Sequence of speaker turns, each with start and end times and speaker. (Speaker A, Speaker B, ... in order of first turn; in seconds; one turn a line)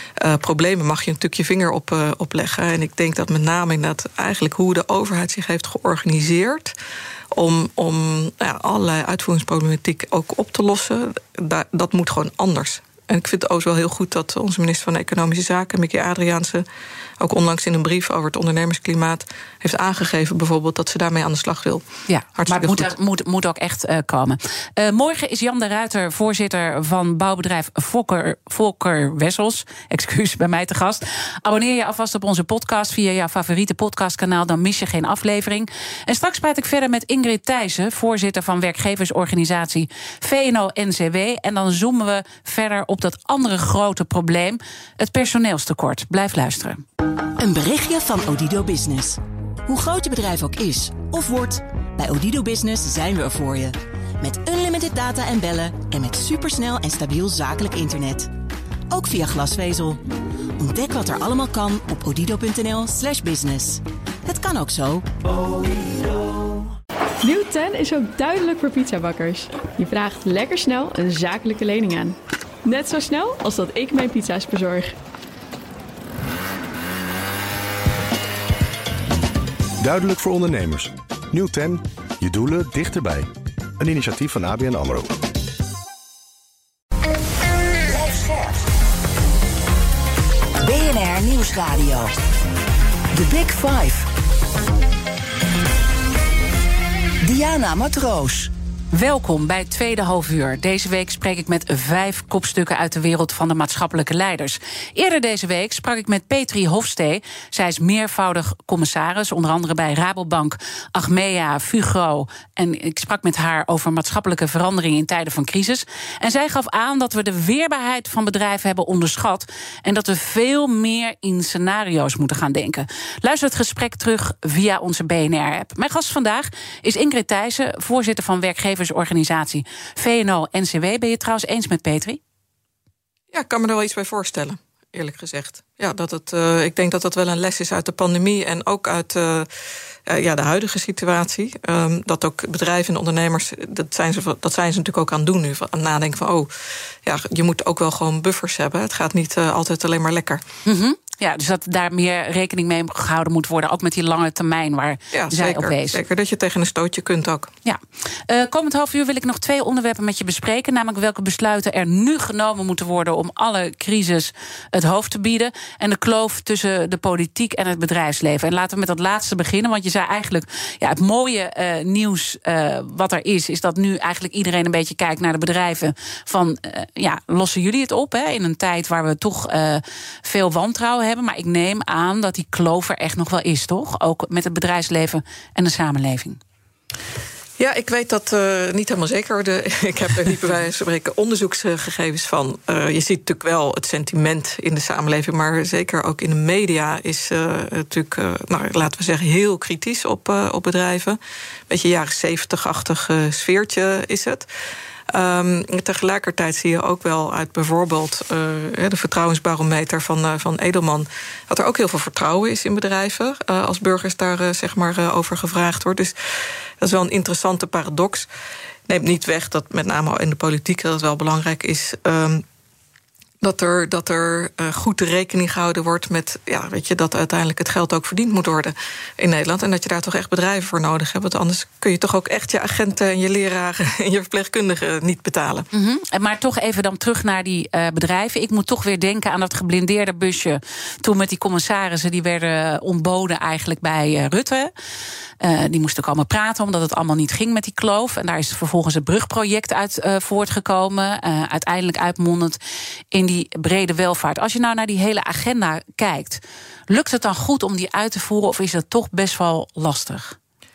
Speaker A: 0.2-6.7
Speaker A: 7.3-16.6
Speaker A: 17.2-21.8
Speaker B: 22.1-46.8
Speaker A: 22.3-22.9
Speaker C: 47.4-58.3
Speaker C: 58.9-60.0
Speaker C: 60.6-65.1
Speaker D: 67.2-75.0
Speaker E: 79.8-83.3
Speaker E: 83.8-85.2
Speaker F: 87.8-88.7
Speaker F: 90.6-92.1
Speaker F: 93.1-94.1
Speaker F: 97.2-98.5
Speaker B: 98.9-132.2
Speaker A: 133.3-139.5
Speaker A: 140.1-146.5
Speaker A: 147.0-150.4
Speaker B: 150.6-156.0
Speaker A: 155.1-157.5
Speaker B: 157.6-186.4
Speaker A: 187.6-204.4
Speaker A: 205.1-216.1
Speaker A: 216.8-218.3
Speaker A: 218.9-222.4
Speaker A: 223.4-235.7
Speaker B: 235.7-244.7
Speaker B: 245.4-252.6
Speaker B: 253.1-260.4